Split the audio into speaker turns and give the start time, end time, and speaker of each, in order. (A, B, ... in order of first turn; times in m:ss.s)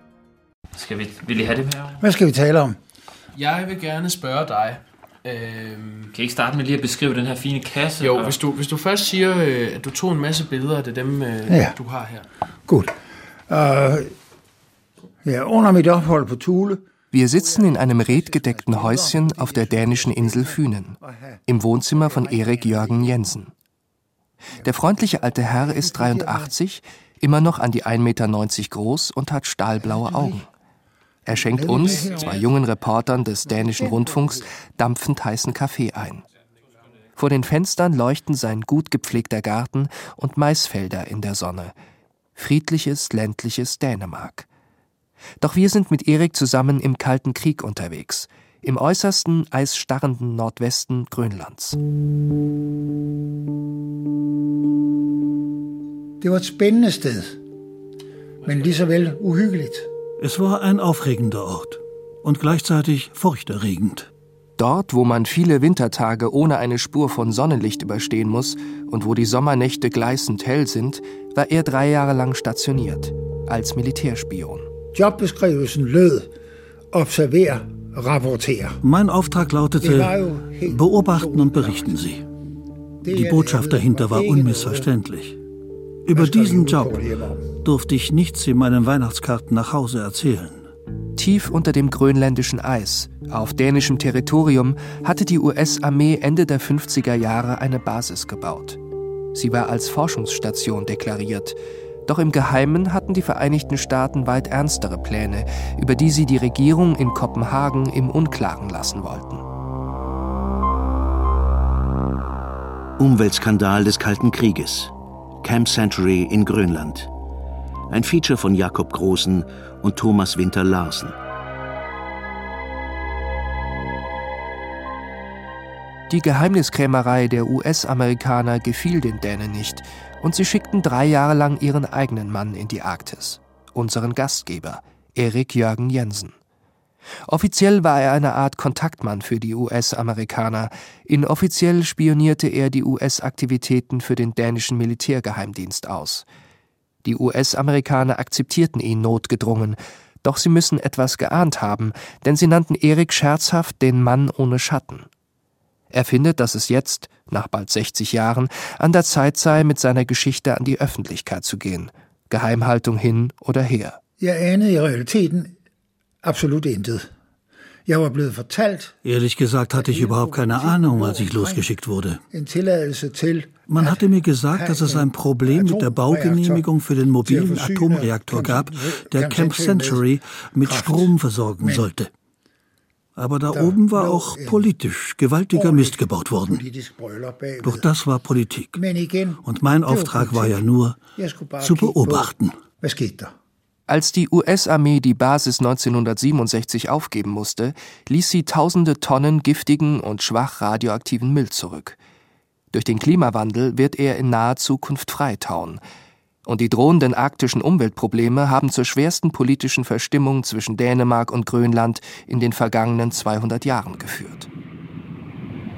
0:00.7-0:02.0 A
0:02.0-0:02.8 B
0:03.3-0:06.1 C
0:06.1-0:08.4 A
0:08.0-0:12.2 C
0:11.5-0:11.7 B
0:12.7-0:12.9 B
0:13.5-0:14.1 B
0:15.2-0:23.2 B
0:17.1-0:23.5 D
0:24.5-0:26.5 B
0:24.6-0:30.5 D
0:29.8-0:30.4 B
0:31.3-0:36.2 D
0:31.3-0:32.5 B
0:33.4-0:34.5 B
0:37.2-0:41.7 D
0:42.3-0:44.5 D
0:45.4-0:51.8 D
0:56.2-0:57.4 B
0:58.4-0:59.9 B
1:00.2-1:04.1 E
1:04.6-1:14.7 D
1:14.9-1:16.3 B
1:16.9-1:18.8 B
1:18.8-1:22.2 E
1:19.8-1:22.0 B
1:23.0-1:24.9 B
1:23.1-1:25.4 E
1:26.0-1:27.0 E
1:26.1-1:27.5 B
1:27.6-1:30.7 E
1:31.2-1:38.8 D
1:39.3-1:49.4 D
1:53.0-1:57.1 F
1:57.9-2:01.1 F
2:06.1-2:16.3 D
2:17.3-2:26.2 D
2:27.0-2:35.1 D
2:35.9-2:44.0 D
2:44.2-2:45.5 B
2:46.2-2:47.1 B
2:47.9-2:49.0 B
2:49.0-2:52.2 E
2:49.8-2:51.7 B
2:52.3-2:56.6 B
2:53.7-3:02.1 E
2:57.2-3:00.0 B
3:00.6-3:01.9 B
3:03.2-3:06.6 E
3:03.5-3:04.7 B
3:05.5-3:07.8 B
3:07.6-3:08.8 E
3:08.7-3:10.6 B
3:09.4-3:11.0 E
3:11.2-3:13.3 B
3:11.6-3:12.6 E
3:13.9-3:22.0 D
3:22.7-3:25.8 D
3:26.4-3:34.5 D